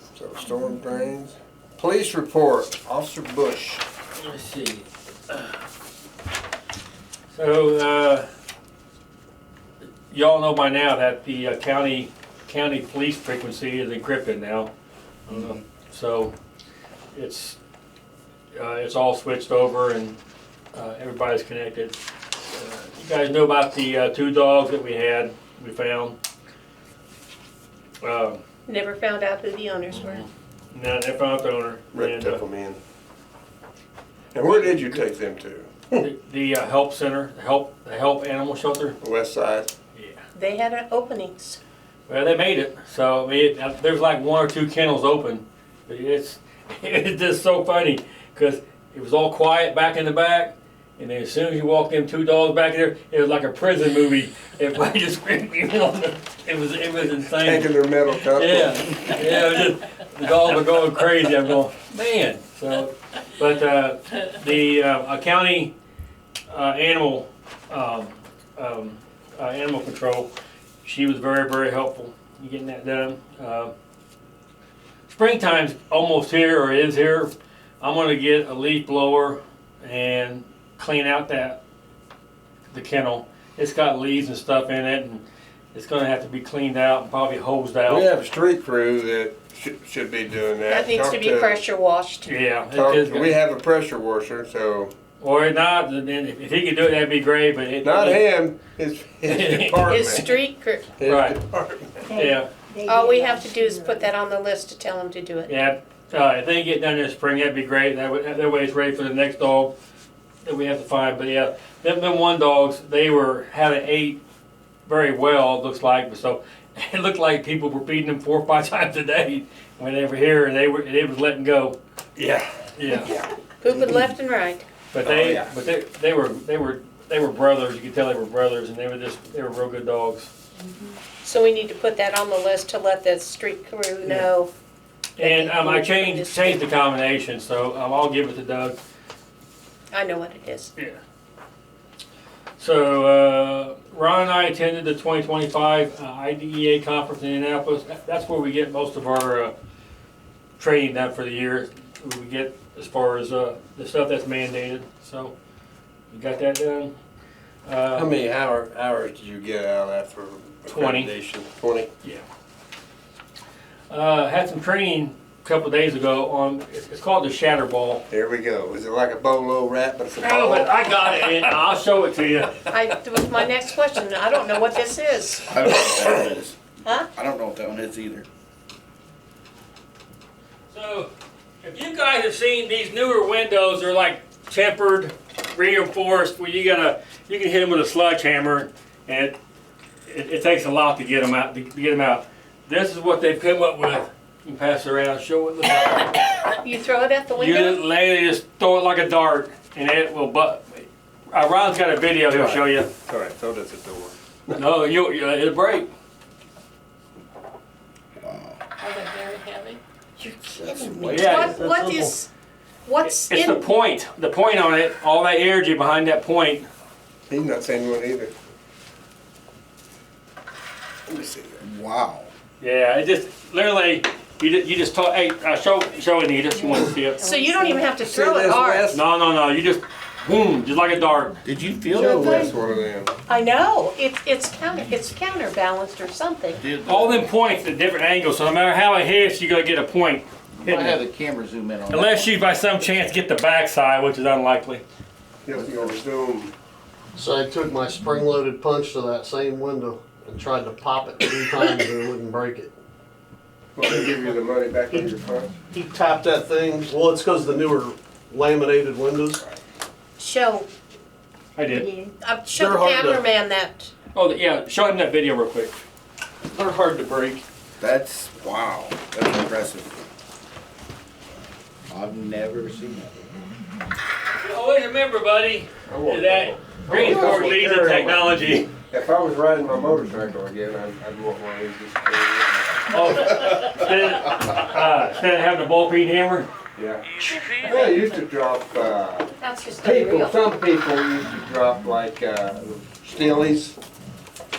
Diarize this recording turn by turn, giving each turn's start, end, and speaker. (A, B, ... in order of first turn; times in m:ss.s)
0:00.2-0:03.8 A
0:04.2-0:05.5 B
0:07.3-0:08.3 B
0:10.1-0:14.7 B
0:15.3-0:16.3 B
0:17.1-0:17.6 B
0:18.5-0:20.2 B
0:20.7-0:26.2 B
0:28.0-0:28.4 B
0:28.7-0:30.2 C
0:29.9-0:32.4 B
0:31.9-0:32.8 A
0:34.4-0:36.0 A
0:34.4-0:35.0 B
0:36.0-0:39.0 B
0:39.0-0:39.7 A
0:40.0-0:40.2 B
0:40.4-0:41.6 C
0:42.1-1:05.7 B
0:57.4-0:59.4 A
1:06.5-1:10.3 B
1:10.8-1:13.7 B
1:15.1-1:21.6 B
1:22.7-1:28.1 B
1:27.9-1:31.6 A
1:30.7-1:32.3 C
1:32.2-1:33.3 B
1:32.7-1:34.9 A
1:35.2-1:38.3 B
1:37.8-1:40.3 A
1:39.3-1:40.2 B
1:39.9-1:40.9 C
1:41.0-1:42.0 A
1:41.0-1:41.4 B
1:42.1-1:44.1 D
1:42.1-1:42.5 B
1:42.9-1:45.6 C
1:45.5-1:49.7 B
1:50.4-1:54.2 B
1:54.9-2:01.8 B
2:02.2-2:02.4 A
2:02.8-2:03.1 B
2:03.6-2:04.6 C
2:04.9-2:10.3 B
2:05.0-2:05.5 A
2:11.2-2:14.5 C
2:15.2-2:18.8 B
2:15.2-2:16.6 C
2:19.9-2:20.7 C
2:22.6-2:29.5 B
2:30.6-2:35.3 B
2:36.1-2:36.9 B
2:37.7-2:38.1 B
2:37.9-2:41.9 A
2:40.7-2:41.1 B
2:43.9-2:48.0 B
2:48.1-2:51.4 A
2:50.2-2:52.7 B
2:52.7-2:55.5 C
2:55.5-2:58.3 E
3:00.7-3:01.1 B
3:01.6-3:09.4 B
3:10.1-3:16.4 B
3:16.6-3:17.8 C
3:17.4-3:22.9 B
3:22.3-3:24.6 A
3:24.6-3:25.9 B
3:28.2-3:28.6 E
3:28.8-3:29.8 D
3:30.4-3:32.3 C
3:30.5-3:31.5 E
3:31.1-3:32.2 B
3:32.9-3:33.6 C
3:33.0-3:36.7 B
3:37.3-3:38.3 A
3:41.1-3:41.6 A
3:41.6-3:42.3 E
3:42.6-3:47.3 B
3:46.6-3:47.9 D
3:47.2-3:48.9 C
3:48.0-3:49.0 A
3:48.9-3:51.4 B
3:51.4-3:52.5 E
3:51.9-3:53.1 A
3:53.3-3:56.6 C
3:56.6-3:57.3 E
3:56.8-4:01.0 B
4:00.6-4:02.3 E
4:01.9-4:04.8 B
4:05.4-4:06.5 A
4:07.2-4:12.7 F
4:13.8-4:15.5 A
4:15.7-4:19.4 F
4:20.2-4:20.7 C
4:21.6-4:21.9 B
4:22.1-4:23.9 C
4:22.5-4:23.2 F
4:24.2-4:25.8 B
4:26.5-4:27.4 F
4:27.8-4:30.0 E
4:31.9-4:33.4 E
4:34.3-4:38.7 B
4:35.9-4:38.3 A
4:38.9-4:42.9 A
4:42.9-4:46.5 B
4:46.8-4:47.0 A
4:47.6-4:49.3 A
4:47.6-4:47.9 C
4:49.4-4:50.4 C
4:49.8-4:53.8 A